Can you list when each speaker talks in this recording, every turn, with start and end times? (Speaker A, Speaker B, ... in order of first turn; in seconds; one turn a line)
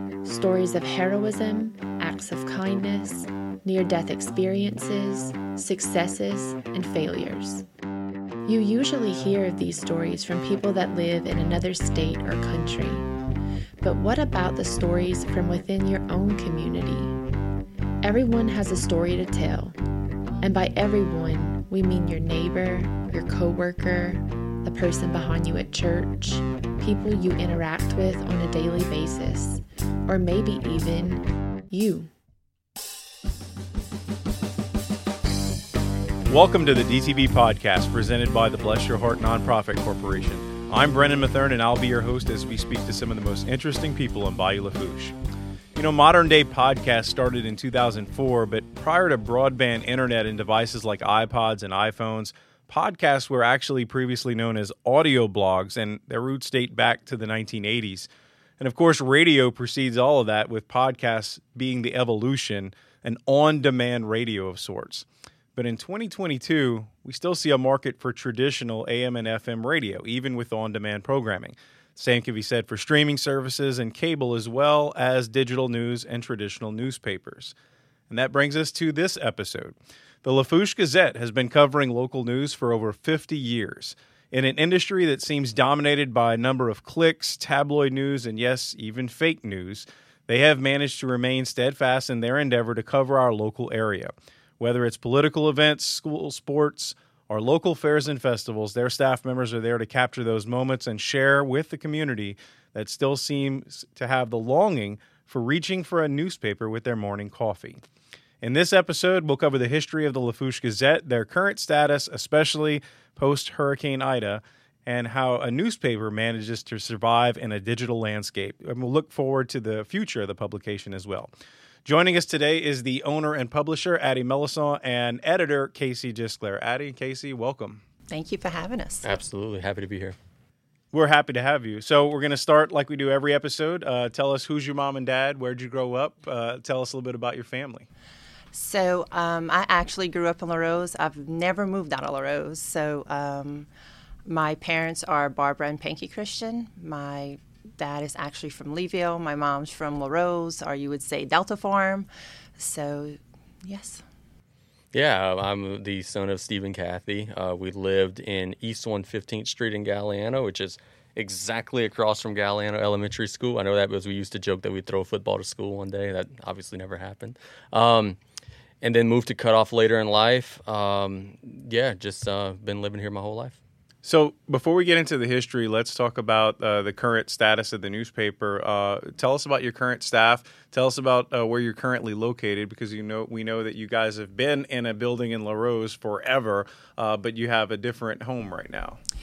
Speaker A: 0.2-7.6
Speaker A: 8.4-13.1
Speaker A: 13.8-17.2
Speaker A: 18.0-19.8
Speaker A: 20.4-32.1
Speaker B: 36.3-45.2
Speaker B: 45.7-77.5
Speaker B: 78.1-107.8
Speaker B: 108.4-121.3
Speaker B: 121.8-127.8
Speaker C: 128.1-129.1
Speaker D: 129.0-130.2
Speaker B: 130.9-137.9
Speaker C: 138.5-143.7
Speaker C: 144.2-154.0
Speaker D: 154.9-168.2
Speaker D: 168.8-173.6
Speaker B: 174.0-189.0